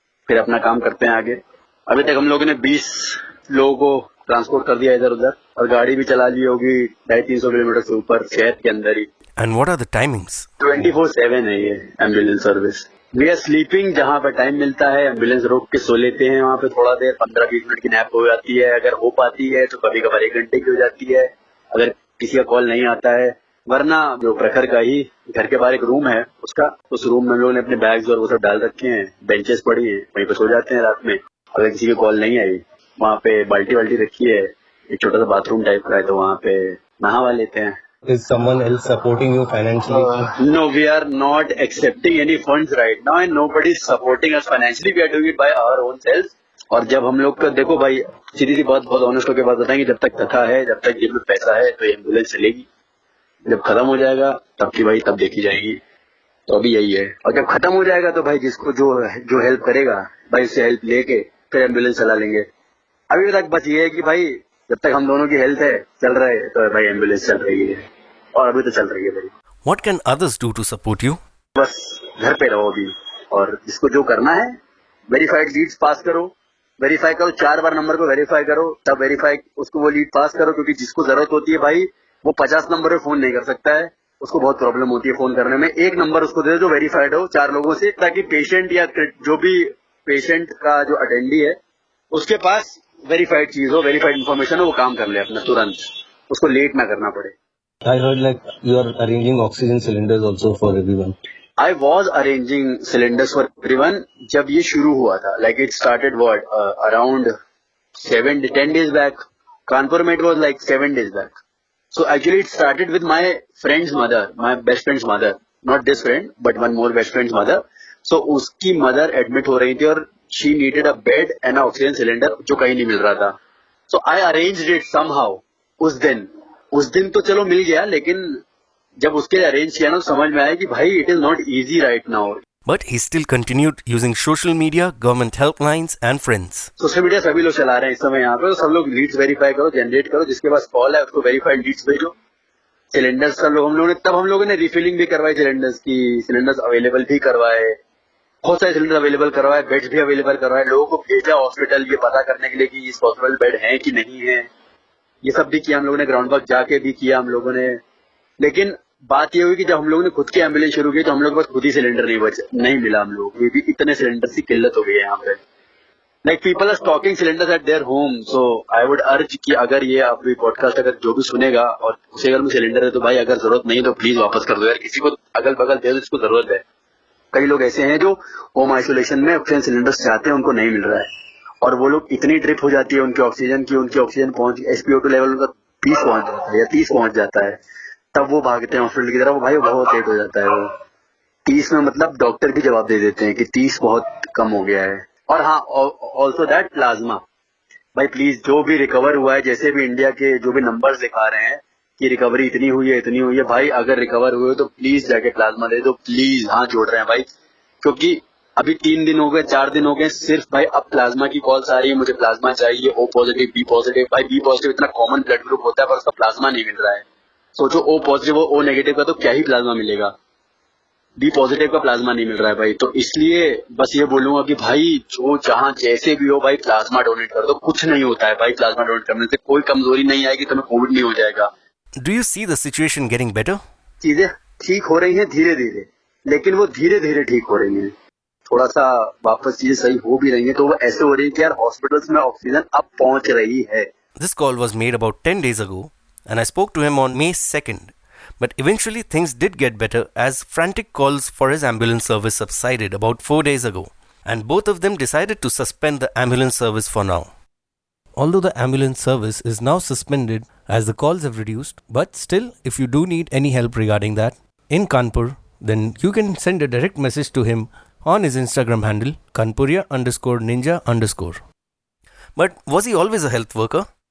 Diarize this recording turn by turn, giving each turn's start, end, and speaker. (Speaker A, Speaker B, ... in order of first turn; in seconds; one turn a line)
Speaker A: 0.3-9.1
Speaker B: 9.4-10.5
Speaker A: 10.6-37.7
Speaker C: 38.0-40.3
Speaker A: 40.4-52.6
Speaker A: 53.5-55.8
Speaker A: 56.5-62.5
Speaker A: 63.1-67.8
Speaker A: 68.3-69.3
Speaker B: 69.6-71.2
Speaker A: 71.5-74.5
Speaker A: 75.1-91.6
Speaker A: 92.1-97.3
Speaker C: 97.8-101.1
Speaker A: 101.6-107.3
Speaker A: 108.0-111.3
Speaker A: 111.9-123.3
Speaker A: 123.9-128.4
Speaker A: 129.0-132.4
Speaker B: 132.7-136.7
Speaker A: 136.8-142.1
Speaker A: 142.9-147.8
Speaker A: 148.4-154.4
Speaker A: 155.2-157.8
Speaker A: 158.4-165.4
Speaker A: 166.2-176.6
Speaker A: 177.3-181.1
Speaker A: 181.6-187.6
Speaker A: 188.1-190.7
Speaker A: 191.4-197.2
Speaker A: 197.9-207.3
Speaker A: 207.8-217.0
Speaker A: 217.6-220.1
Speaker A: 221.2-231.5
Speaker B: 232.0-233.6
Speaker A: 234.0-237.9
Speaker A: 238.5-243.9
Speaker B: 244.2-257.3
Speaker B: 258.1-271.4
Speaker B: 272.4-273.9